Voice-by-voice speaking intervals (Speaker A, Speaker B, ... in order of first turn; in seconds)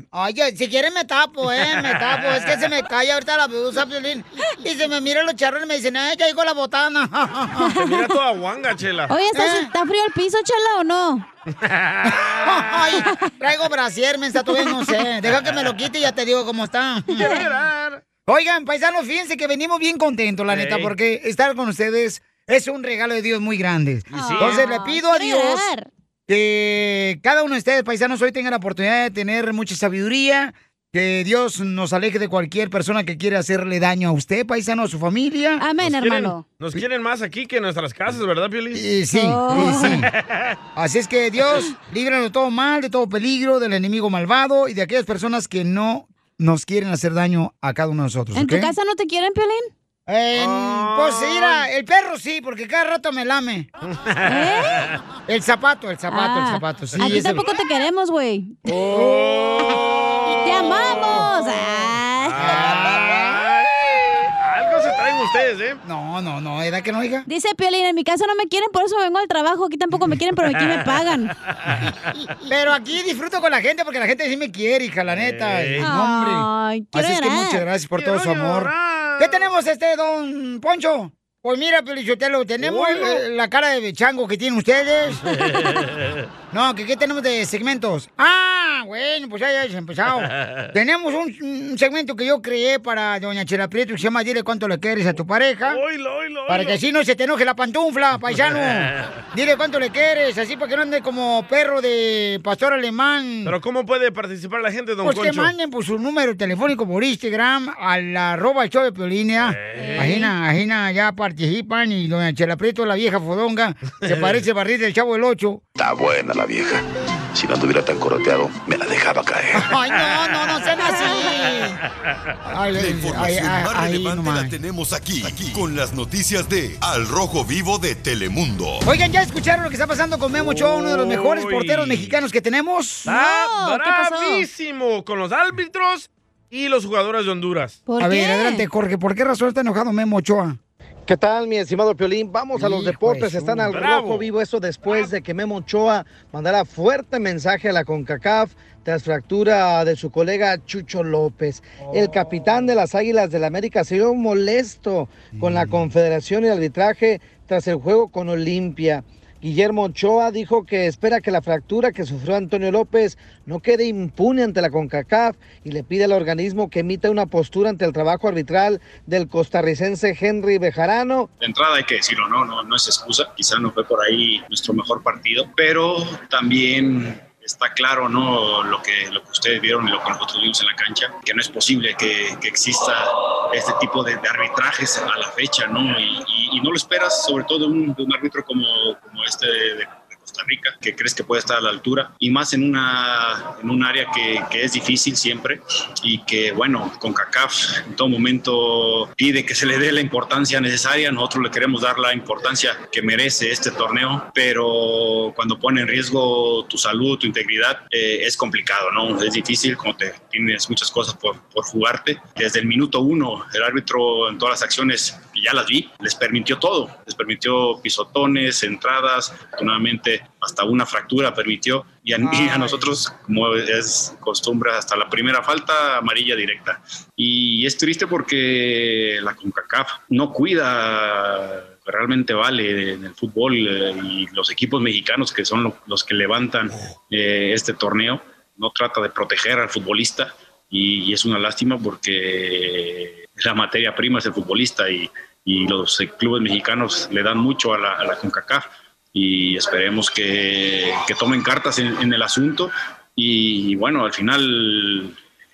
Speaker A: 0.1-7.7, 9.3-9.7, 12.0-17.4, 18.2-25.7, 26.3-35.6, 38.7-40.1, 40.8-48.7, 50.1-53.7, 55.3-57.5, 58.9-59.4, 60.7-61.2, 62.4-63.4, 65.8-67.2, 72.5-85.2, 86.5-95.8, 96.5-103.5, 105.0-115.6, 119.6-121.8, 122.5-124.5, 128.8-133.1, 138.0-140.6, 142.6-143.7, 151.8-152.7, 155.3-155.8, 222.2-222.8
Speaker B: 1.8-2.5, 7.8-9.1, 11.5-13.0, 15.3-15.8, 17.1-18.0, 20.5-20.9, 24.1-24.6, 35.8-38.8, 39.5-40.5, 50.3-51.6, 53.9-55.0, 57.0-57.3, 58.7-65.8, 70.5-71.0, 71.6-72.2, 75.1-75.9, 78.0-79.5, 82.6-83.2, 85.2-86.3, 90.2-90.7, 95.7-96.8, 98.3-99.2, 103.4-105.5, 109.4-110.2, 114.0-114.4, 120.2-120.5, 121.4-121.7, 130.3-132.2, 133.1-137.8, 143.7-144.3
Speaker C: 7.7-8.1, 9.1-11.2, 14.5-15.0, 17.1-17.5, 24.1-25.9, 35.6-36.5, 39.1-40.0, 48.3-49.7, 54.2-54.9, 56.1-58.7, 60.4-62.5, 67.2-71.3, 75.8-77.6, 109.8-110.3, 120.9-121.3, 133.1-134.5, 137.8-138.6
Speaker D: 115.8-116.8, 117.3-119.7
Speaker E: 122.7-128.8
Speaker F: 141.1-171.3
Speaker G: 171.4-255.2